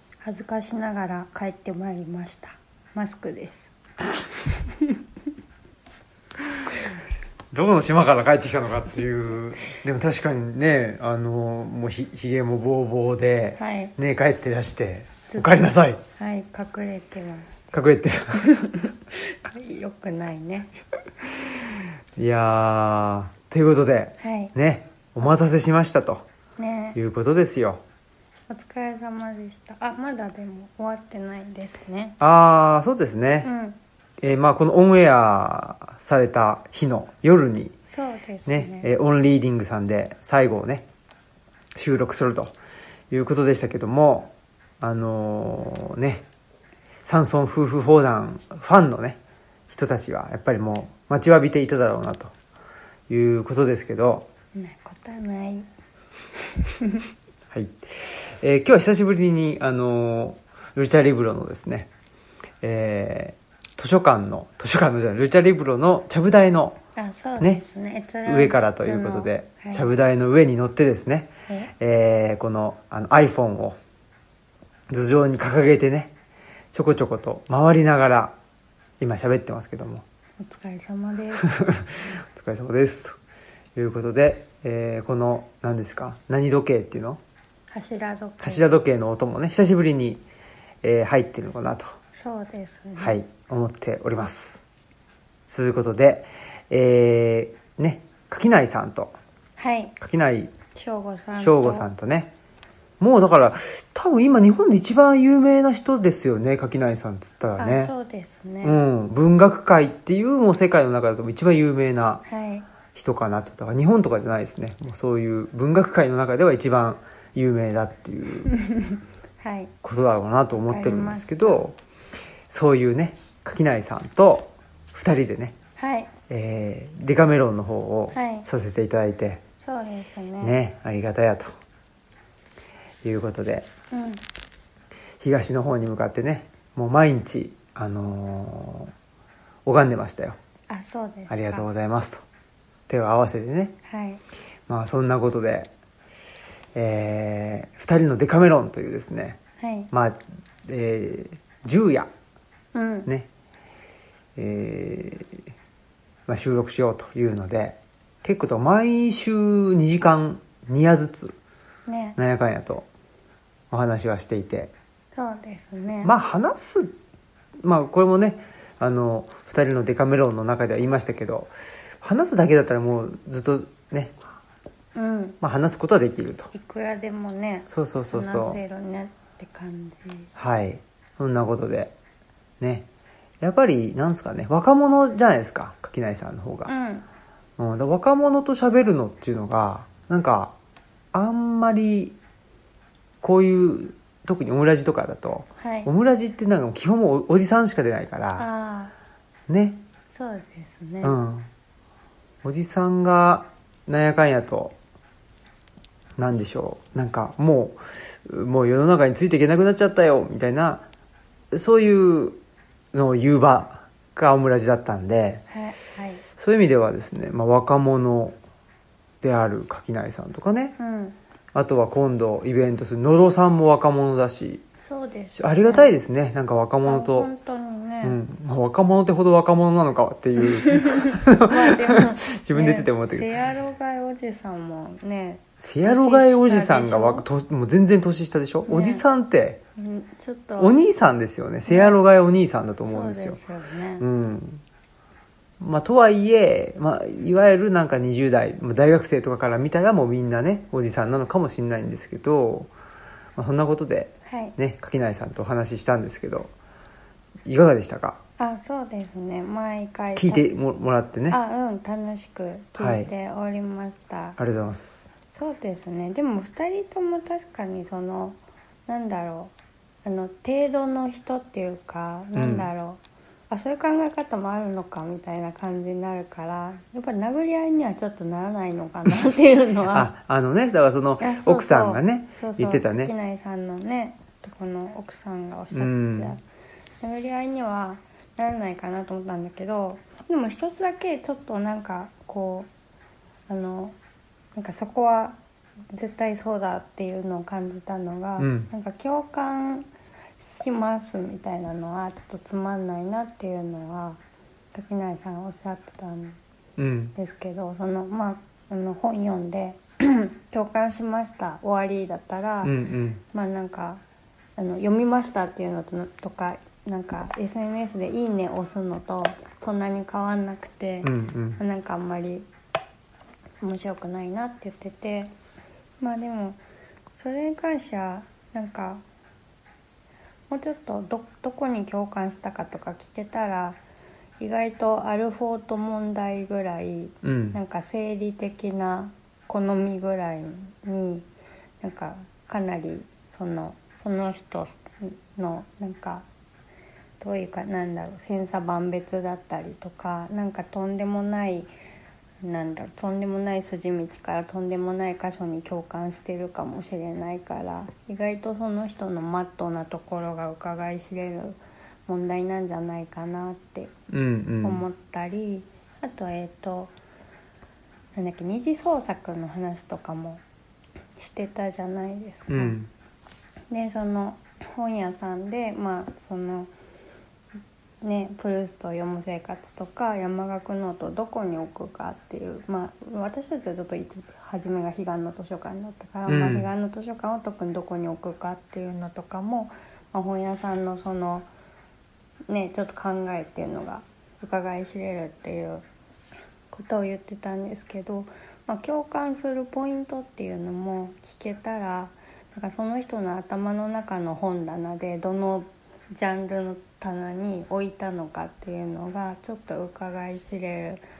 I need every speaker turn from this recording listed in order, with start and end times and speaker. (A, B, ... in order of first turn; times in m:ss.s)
0:00.2-0:03.7 A
0:04.7-0:05.0 A
0:07.5-0:16.0 B
0:13.6-0:13.9 A
0:15.3-0:15.5 A
0:16.2-0:17.8 A
0:17.7-0:18.5 B
0:18.4-0:20.7 A
0:22.2-0:26.3 B
0:24.2-0:24.5 A
0:26.6-0:27.0 A
0:27.0-0:27.8 B
0:28.5-0:32.2 A
0:32.2-0:33.5 B
0:33.4-0:33.8 A
0:34.2-0:37.8 B
0:37.9-0:38.9 A
0:38.5-0:40.8 B
0:41.8-0:42.5 B
0:43.1-0:46.3 B
0:47.0-0:49.2 B
0:49.7-0:52.3 B
0:53.1-0:54.3 B
0:54.6-0:55.7 A
0:56.8-0:57.1 A
0:57.5-1:01.9 B
1:02.6-1:06.8 B
1:07.0-1:09.9 A
1:08.2-1:13.8 B
1:11.5-1:11.7 A
1:14.9-1:16.1 B
1:16.7-1:18.4 B
1:19.0-1:20.0 B
1:20.4-1:21.5 A
1:21.4-1:23.2 B
1:23.8-1:27.2 B
1:27.7-1:28.7 A
1:28.4-1:30.2 B
1:30.8-1:32.0 B
1:32.2-1:33.2 A
1:33.0-1:34.6 B
1:35.5-1:39.2 B
1:39.6-1:40.0 A
1:40.0-1:40.5 B
1:40.7-1:41.9 A
1:41.4-1:42.3 B
1:43.0-1:47.9 B
1:47.6-1:48.8 A
1:48.6-1:52.2 B
1:52.3-1:52.7 A
1:52.9-1:58.5 B
1:58.5-1:59.7 A
1:59.8-2:01.8 B
2:00.7-2:01.6 A
2:02.5-2:05.6 B
2:05.8-2:06.1 A
2:06.3-2:09.4 B
2:08.1-2:08.5 A
2:09.6-2:10.6 A
2:10.4-2:11.6 B
2:13.0-2:13.7 B
2:13.9-2:14.2 A
2:15.2-2:18.9 B
2:19.7-2:20.4 B
2:20.7-2:21.7 A
2:21.3-2:22.2 B
2:22.9-2:23.8 B
2:23.9-2:24.2 A
2:24.7-2:25.7 B
2:26.8-2:29.4 B
2:29.6-2:29.9 A
2:29.9-2:32.1 B
2:32.7-2:33.1 A
2:34.4-2:35.4 B
2:36.3-2:41.4 B
2:41.9-2:42.2 A
2:42.2-2:42.9 B
2:43.7-2:44.7 B
2:45.1-2:46.1 A
2:46.0-2:47.0 B
2:47.6-2:54.2 B
2:55.0-2:55.4 A
2:55.4-2:56.5 B
2:56.5-3:00.3 A
2:57.7-2:58.6 B
3:00.4-3:01.9 B
3:02.6-3:02.9 B
3:03.4-3:06.7 B
3:06.7-3:07.1 A
3:07.6-3:10.5 B
3:11.1-3:12.2 B
3:13.2-3:18.5 B
3:15.6-3:15.9 A
3:18.4-3:18.9 A
3:19.5-3:19.8 B
3:20.1-3:21.2 A
3:21.0-3:21.5 B
3:22.4-3:24.8 B
3:26.2-3:30.9 B
3:31.5-3:32.4 B
3:32.9-3:35.4 B
3:35.5-3:36.2 A
3:36.3-3:38.4 B
3:39.2-3:40.8 B
3:40.8-3:41.2 A
3:41.5-3:44.6 B
3:44.8-3:45.9 A
3:45.4-3:47.3 B
3:46.8-3:48.2 A
3:48.0-3:53.3 B
3:50.7-3:57.2 A
3:55.6-3:59.6 B
3:58.7-3:59.0 A
3:59.8-4:00.8 A
4:00.6-4:03.4 B
4:01.7-4:02.0 A
4:02.9-4:04.0 A
4:04.0-4:04.6 B
4:05.6-4:12.7 B
4:13.4-4:16.5 B
4:14.3-4:14.6 A
4:17.5-4:18.2 B
4:18.4-4:20.5 A
4:20.2-4:21.4 B
4:21.3-4:24.4 A
4:22.8-4:23.1 B
4:24.4-4:25.1 B
4:25.3-4:29.5 A
4:30.0-4:40.1 A
4:32.4-4:32.7 B
4:39.9-4:43.1 B
4:41.2-4:46.4 A
4:45.7-4:46.4 B
4:47.0-4:52.7 A
4:53.5-4:54.0 A
4:54.6-4:55.4 A
4:55.9-4:59.9 A
4:58.4-4:58.7 B
5:00.4-5:04.2 A
5:04.7-5:06.4 A
5:06.8-5:07.2 B
5:07.2-5:12.8 A
5:12.6-5:13.2 B
5:13.3-5:14.0 A
5:14.6-5:22.5 A
5:21.0-5:21.6 B
5:23.6-5:25.3 A
5:26.0-5:26.6 A
5:27.2-5:29.0 A
5:30.5-5:33.8 A
5:34.4-5:41.3 A
5:37.2-5:37.6 B
5:41.8-5:46.3 A
5:47.2-5:51.7 A
5:52.4-6:03.9 A
6:04.1-6:04.8 B
6:04.6-6:06.9 A
6:08.2-6:10.4 A
6:11.2-6:12.8 A
6:12.5-6:12.9 B
6:13.7-6:16.7 A
6:18.0-6:31.5 A
6:26.3-6:26.7 B
6:32.5-6:35.8 A
6:36.7-6:51.0 A